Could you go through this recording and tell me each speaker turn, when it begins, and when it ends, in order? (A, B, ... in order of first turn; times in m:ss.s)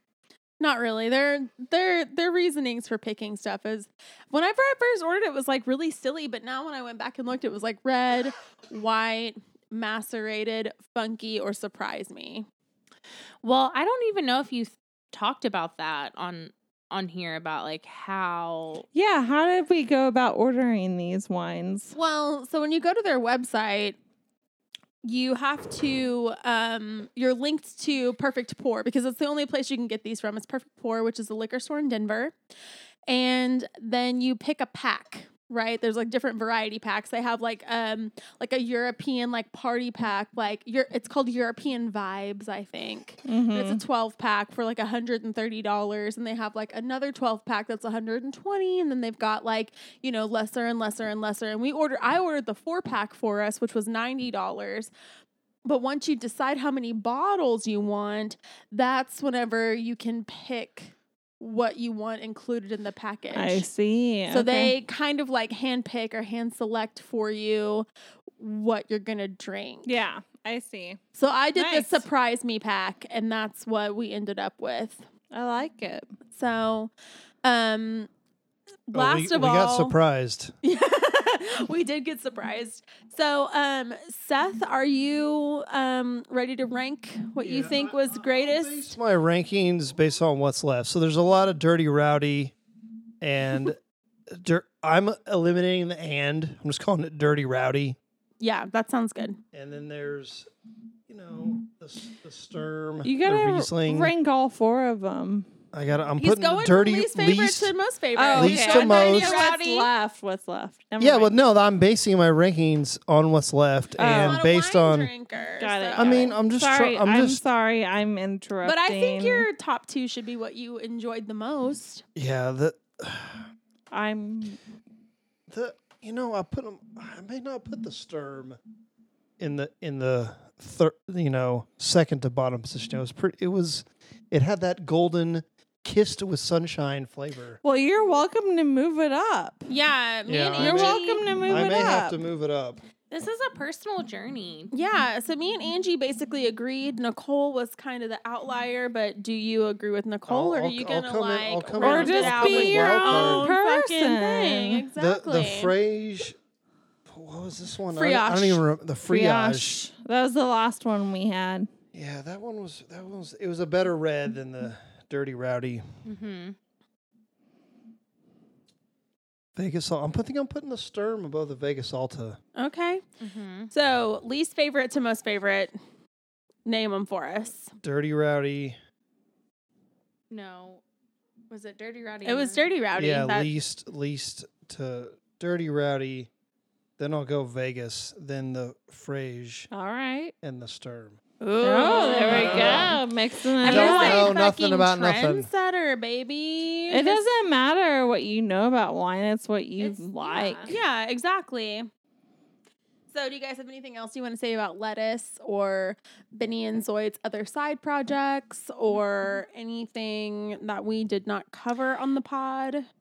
0:00.6-0:12.4 A
0:13.4-0:18.8 B
0:18.9-0:21.9 C
0:21.9-0:24.0 A
0:25.0-0:32.3 A
0:33.1-0:54.9 A
0:43.2-0:43.8 C
0:55.6-1:03.6 A
1:03.3-1:04.7 C
1:04.3-1:07.9 A
1:08.4-1:10.0 A
1:09.8-1:11.0 C
1:11.1-1:15.0 A
1:11.5-1:12.0 C
1:15.3-1:16.1 C
1:16.3-1:16.9 A
1:17.4-1:18.1 A
1:18.9-1:19.9 A
1:18.9-1:20.5 D
1:20.6-1:28.9 A
1:27.4-1:32.5 D
1:33.2-1:33.8 D
1:34.3-1:38.0 D
1:38.4-1:39.4 A
1:39.5-1:40.5 D
1:41.1-1:44.1 D
1:43.0-1:45.5 C
1:45.7-1:47.7 D
1:46.2-1:49.9 A
1:48.1-1:51.4 C
1:48.3-1:49.4 D
1:51.0-1:55.1 D
1:54.0-1:54.4 C
1:54.0-1:56.4 A
1:55.6-1:59.5 C
1:56.0-1:57.4 D
1:58.6-2:02.0 A
2:02.2-2:03.4 D
2:03.9-2:04.6 C
2:05.5-2:08.6 D
2:09.4-2:17.6 D
2:17.6-2:19.7 C
2:19.7-2:21.7 A
2:20.3-2:22.8 D
2:20.6-2:22.2 C
2:23.1-2:24.7 B
2:24.7-2:35.7 A
2:30.3-2:33.5 D
2:31.8-2:34.9 C
2:35.0-2:36.4 D
2:37.1-2:39.8 D
2:37.9-2:38.6 A
2:39.0-2:41.7 C
2:41.9-2:45.8 D
2:46.0-2:46.6 B
2:49.5-2:52.4 D
2:52.6-2:53.0 A
2:53.2-2:53.7 B
2:53.7-2:55.7 A
2:56.6-2:57.7 A
2:57.8-2:58.8 D
3:00.3-3:00.8 B
3:01.5-3:02.7 B
3:02.2-3:03.5 A
3:03.0-3:06.3 D
3:07.0-3:09.7 D
3:09.7-3:10.3 C
3:10.4-3:11.2 D
3:11.4-3:13.0 A
3:11.6-3:14.3 C
3:12.2-3:13.0 D
3:13.6-3:17.2 A
3:13.6-3:15.5 D
3:16.9-3:20.7 C
3:19.8-3:20.8 B
3:20.7-3:21.9 A
3:23.1-3:32.8 A